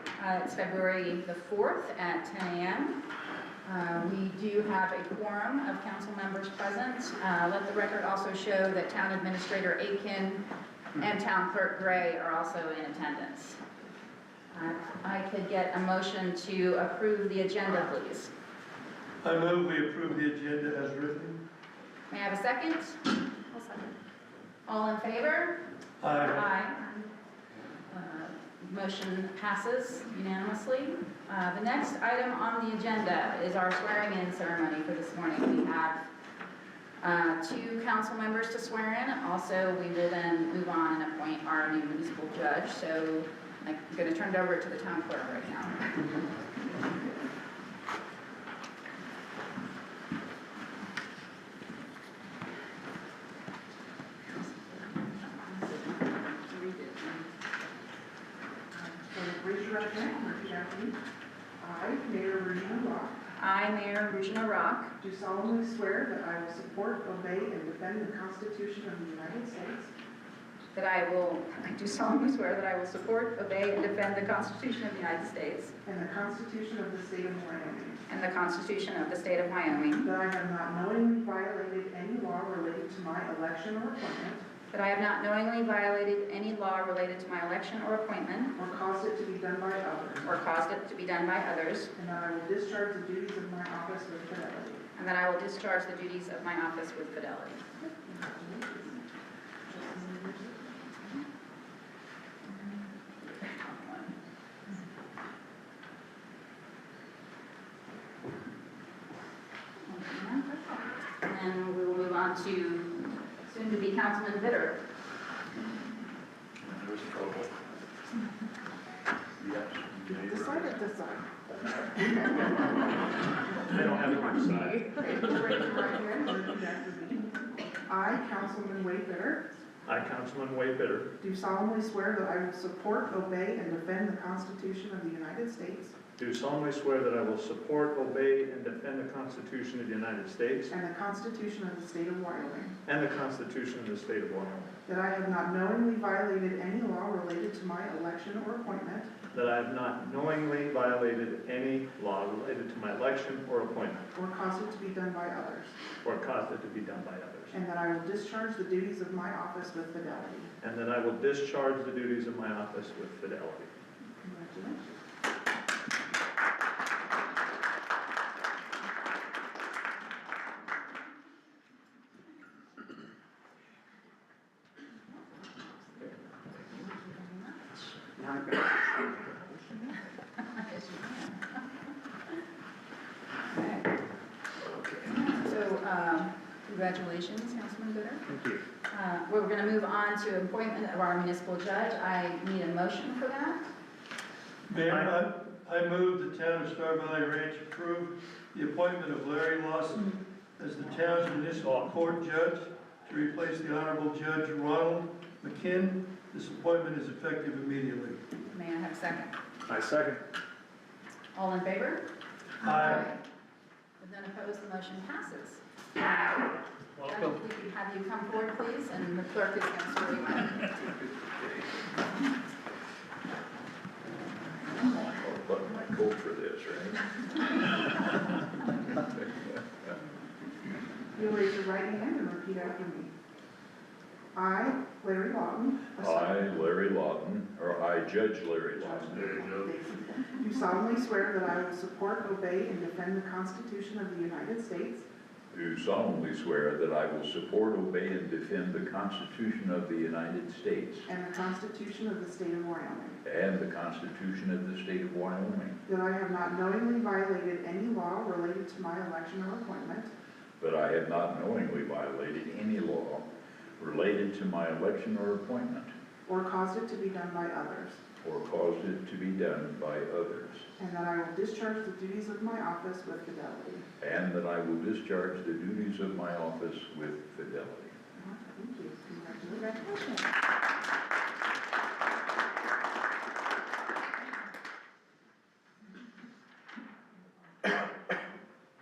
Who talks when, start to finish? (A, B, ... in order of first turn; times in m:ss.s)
0:00.2-0:03.0 A
0:03.6-0:10.4 A
0:11.0-0:13.6 A
0:14.5-0:18.3 A
0:19.2-0:21.4 B
0:22.1-0:24.0 A
0:24.6-0:25.6 A
0:26.0-0:26.4 B
0:26.2-0:27.1 A
0:27.9-0:36.0 A
0:37.0-0:46.1 A
0:54.3-0:57.3 A
0:59.0-1:01.0 C
1:01.6-1:03.2 C
1:03.4-1:04.9 A
1:05.0-1:09.9 C
1:10.7-1:15.7 A
1:15.8-1:18.0 C
1:18.1-1:20.1 A
1:20.0-1:24.4 C
1:24.7-1:28.6 A
1:28.6-1:30.2 C
1:30.2-1:31.9 A
1:32.0-1:34.8 C
1:35.0-1:37.6 A
1:37.8-1:39.0 C
1:39.7-1:40.7 C
1:42.5-1:44.1 A
1:49.8-1:54.8 A
1:56.7-1:57.4 D
1:59.4-2:00.7 D
2:00.1-2:02.7 C
2:03.6-2:05.4 E
2:04.8-2:09.4 C
2:09.8-2:11.1 E
2:11.2-2:16.0 C
2:16.2-2:20.7 E
2:20.7-2:22.7 C
2:22.8-2:24.7 E
2:24.8-2:29.1 C
2:29.3-2:34.0 E
2:34.1-2:35.7 C
2:36.0-2:37.6 E
2:37.5-2:40.5 C
2:40.6-2:43.7 E
2:44.2-2:44.9 C
2:55.1-2:58.1 A
3:00.4-3:01.6 A
3:03.5-3:03.9 A
3:05.0-3:08.2 A
3:08.3-3:08.6 E
3:08.9-3:13.7 A
3:14.7-3:28.2 B
3:14.9-3:15.2 E
3:28.3-3:29.3 A
3:29.7-3:30.2 E
3:31.3-3:32.1 A
3:32.6-3:33.0 B
3:32.6-3:33.2 A
3:34.0-3:36.4 A
3:37.0-3:37.4 E
3:37.0-3:40.9 A
3:44.9-3:47.9 D
3:51.1-3:53.1 C
3:54.3-3:56.6 C
3:56.0-3:59.3 D
3:58.8-4:05.0 C
4:05.5-4:11.1 D
4:11.0-4:13.2 C
4:13.2-4:15.8 D
4:15.8-4:20.1 C
4:20.6-4:23.3 D
4:23.8-4:25.9 D
4:26.2-4:28.0 C
4:28.2-4:30.7 D
4:30.8-4:33.8 C
4:34.0-4:37.9 D
4:38.1-4:40.2 C